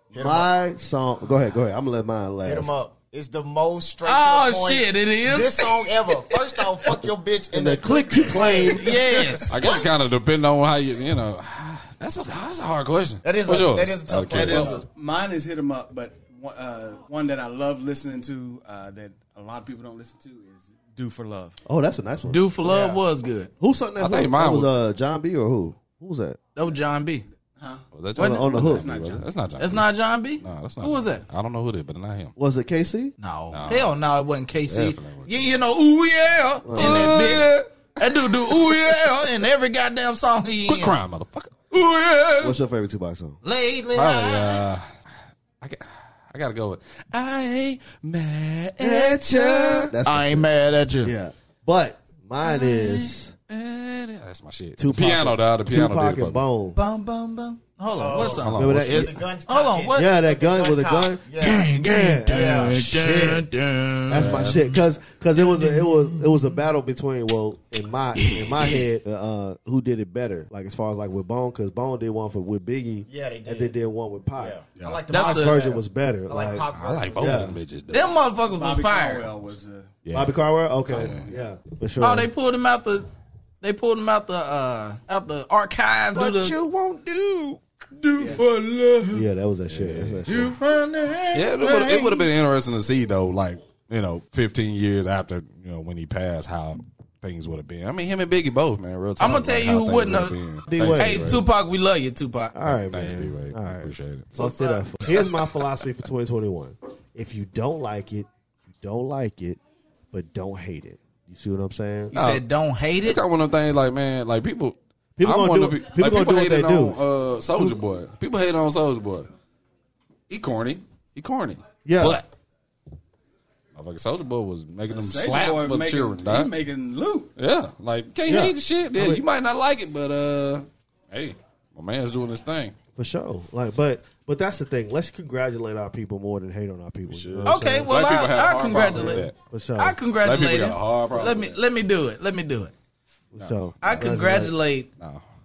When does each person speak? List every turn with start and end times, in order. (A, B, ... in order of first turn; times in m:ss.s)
0:00.1-0:00.5 A
0:00.1-0:02.7 B
0:02.4-0:09.8 A
0:04.0-0:06.9 C
0:07.5-0:08.9 B
0:08.6-0:09.6 C
0:09.5-0:14.8 D
0:13.2-0:14.8 A
0:14.3-0:14.8 C
0:14.7-0:21.6 E
0:21.6-0:22.4 B
0:22.3-0:23.5 C
0:23.6-0:26.4 B
0:24.0-0:24.7 D
0:26.6-0:27.2 C
0:27.6-0:27.8 E
0:27.9-0:32.3 D
0:28.2-0:29.1 B
0:28.2-0:28.4 C
0:28.5-0:29.2 E
0:29.6-0:31.2 C
0:32.4-0:33.1 B
0:33.2-0:41.0 C
0:33.5-0:33.9 D
0:34.7-0:35.4 D
0:36.6-0:37.4 B
0:36.8-0:39.1 D
0:40.7-0:41.5 D
0:41.7-0:42.6 C
0:42.4-0:43.4 B
0:43.4-0:44.6 C
0:43.9-0:44.8 D
0:45.6-0:49.9 D
0:48.8-0:50.5 B
0:50.0-0:51.1 C
0:51.0-0:53.3 B
0:52.5-0:56.4 D
0:54.8-0:56.8 B
0:56.7-1:00.1 C
0:58.0-1:01.7 A
0:58.1-0:59.1 D
0:58.5-0:59.2 B
0:59.9-1:03.4 B
1:01.4-1:04.7 C
1:02.3-1:02.8 A
1:04.1-1:14.6 B
1:04.1-1:04.7 D
1:05.4-1:06.4 C
1:08.2-1:08.8 C
1:13.1-1:13.8 A
1:14.4-1:17.4 A
1:15.1-1:15.6 C
1:15.1-1:16.6 B
1:16.7-1:18.2 D
1:17.2-1:17.6 B
1:17.9-1:19.3 C
1:18.5-1:19.9 E
1:20.0-1:20.4 D
1:20.1-1:22.3 B
1:20.9-1:21.3 D
1:22.0-1:23.1 C
1:23.6-1:26.6 C
1:26.1-1:27.6 B
1:28.0-1:29.2 C
1:29.1-1:30.5 B
1:29.7-1:30.4 D
1:30.3-1:32.3 C
1:31.3-1:41.4 D
1:39.2-1:40.3 C
1:40.7-1:41.4 B
1:41.0-1:42.5 C
1:42.5-1:49.6 B
1:42.6-1:44.3 D
1:44.4-1:45.1 C
1:50.1-1:52.1 B
1:52.1-1:53.2 C
1:52.1-1:52.4 D
1:53.0-1:59.3 D
1:55.2-1:57.0 B
1:57.5-1:57.8 B
2:00.3-2:02.3 D
2:01.8-2:02.2 B
2:03.7-2:06.5 D
2:04.9-2:07.3 E
2:07.4-2:12.7 D
2:08.2-2:09.2 B
2:13.0-2:17.9 B
2:17.1-2:19.3 D
2:17.4-2:22.7 C
2:18.7-2:20.0 B
2:20.2-2:21.6 D
2:23.3-2:24.6 B
2:23.4-2:24.0 D
2:23.8-2:24.9 C